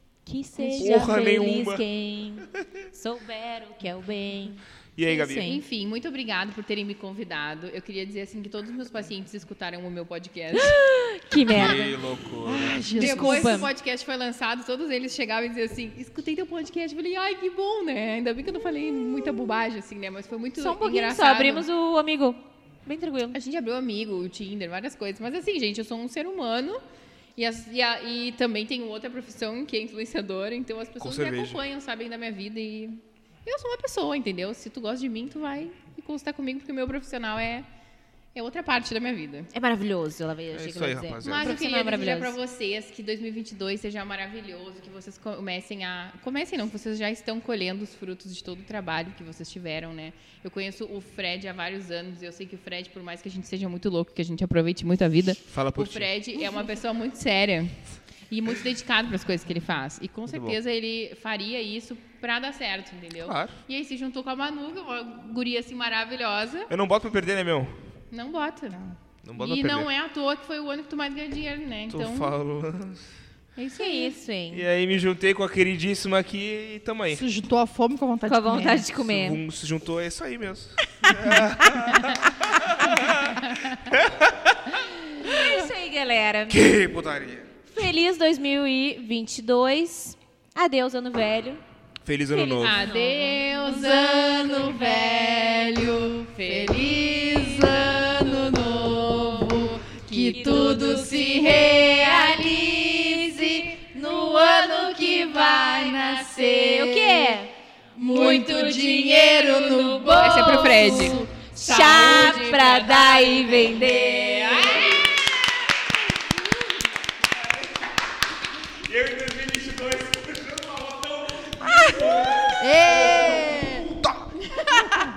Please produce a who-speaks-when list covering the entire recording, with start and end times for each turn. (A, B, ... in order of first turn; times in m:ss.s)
0:00.2-0:05.6 A
0:00.6-0:01.1 B
0:00.8-0:01.8 C
0:05.0-0:05.5 C
0:05.3-0:10.8 B
0:10.5-0:12.0 A
0:11.4-0:12.9 C
0:12.4-0:13.6 D
0:12.8-0:21.6 B
0:12.9-0:13.7 A
0:20.6-0:23.4 A
0:23.3-0:26.8 B
0:27.4-0:37.7 B
0:31.0-0:31.6 C
0:38.3-0:39.5 B
0:39.5-0:42.3 A
0:40.5-0:41.5 C
0:41.2-0:57.8 B
0:55.5-0:56.1 C
0:58.3-1:06.7 B
1:00.3-1:00.6 C
1:03.2-1:03.6 C
1:06.7-1:07.7 C
1:08.1-1:08.8 B
1:09.2-1:09.9 C
1:09.3-1:12.3 B
1:11.9-1:13.0 C
1:13.6-1:14.2 B
1:13.7-1:14.6 A
1:14.5-1:17.2 C
1:17.1-1:18.9 D
1:18.3-1:19.4 A
1:19.0-1:24.7 C
1:21.0-1:21.9 D
1:24.7-1:26.6 A
1:26.5-1:27.5 C
1:27.7-1:31.6 A
1:32.0-1:32.8 C
1:32.3-1:34.8 A
1:32.6-1:47.4 B
1:34.3-1:46.8 D
1:40.3-1:41.2 A
1:46.6-1:55.0 A
1:48.0-1:51.3 D
1:48.0-1:55.1 B
1:58.8-2:04.4 C
2:01.7-2:03.9 D
2:04.5-2:05.0 B